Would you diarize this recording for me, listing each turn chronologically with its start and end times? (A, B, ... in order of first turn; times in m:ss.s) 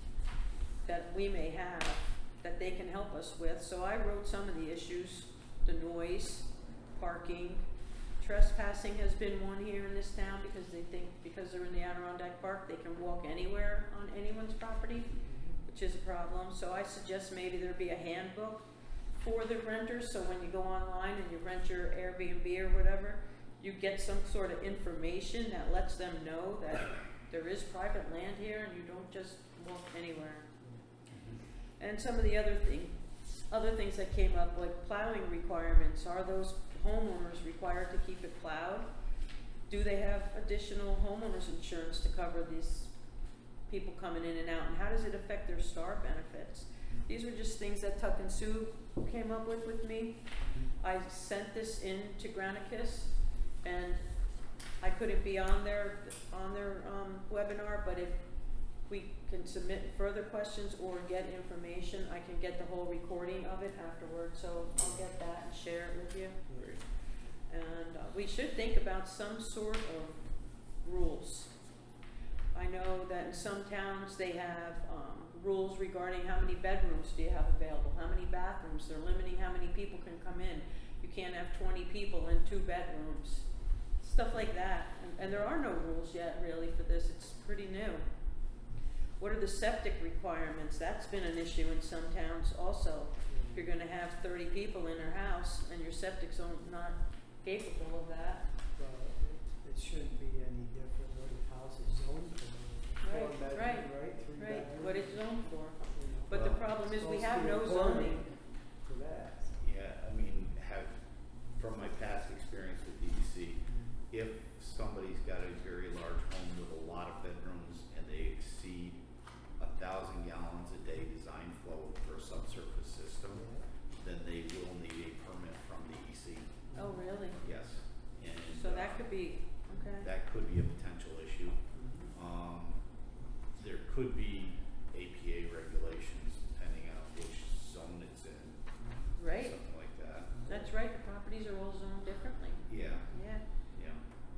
0:00.8-0:07.6 A
0:08.2-0:15.1 A
0:15.2-0:15.6 B
0:15.6-0:18.6 A
0:19.2-0:30.5 A
0:31.1-0:31.4 C
0:31.8-0:32.9 A
0:33.5-0:38.9 A
0:39.7-0:42.9 A
0:43.7-0:50.2 A
0:50.8-0:53.1 A
0:53.6-0:54.0 A
0:54.8-0:58.2 A
0:58.9-1:06.8 A
1:04.8-1:05.0 B
1:07.5-1:10.3 A
1:10.8-1:11.5 A
1:12.5-1:23.5 A
1:24.0-1:28.1 A
1:25.2-1:25.5 B
1:29.2-1:38.4 A
1:33.3-1:33.7 B
1:38.8-1:45.4 B
1:43.0-1:48.2 A
1:45.9-1:49.6 B
1:49.6-1:50.9 C
1:51.6-1:59.0 C
1:59.6-2:03.5 C
2:03.3-2:03.6 B
2:04.0-2:06.7 C
2:06.7-2:07.0 B
2:06.8-2:07.4 A
2:07.4-2:09.1 C
2:08.5-2:10.1 A
2:10.0-2:11.6 C
2:11.7-2:12.1 B
2:12.1-2:12.8 C
2:13.6-2:20.4 C
2:18.8-2:19.1 B
2:19.2-2:19.6 A
2:20.4-2:20.7 B
2:20.5-2:23.4 A
2:22.7-2:23.1 C
2:23.7-2:24.0 C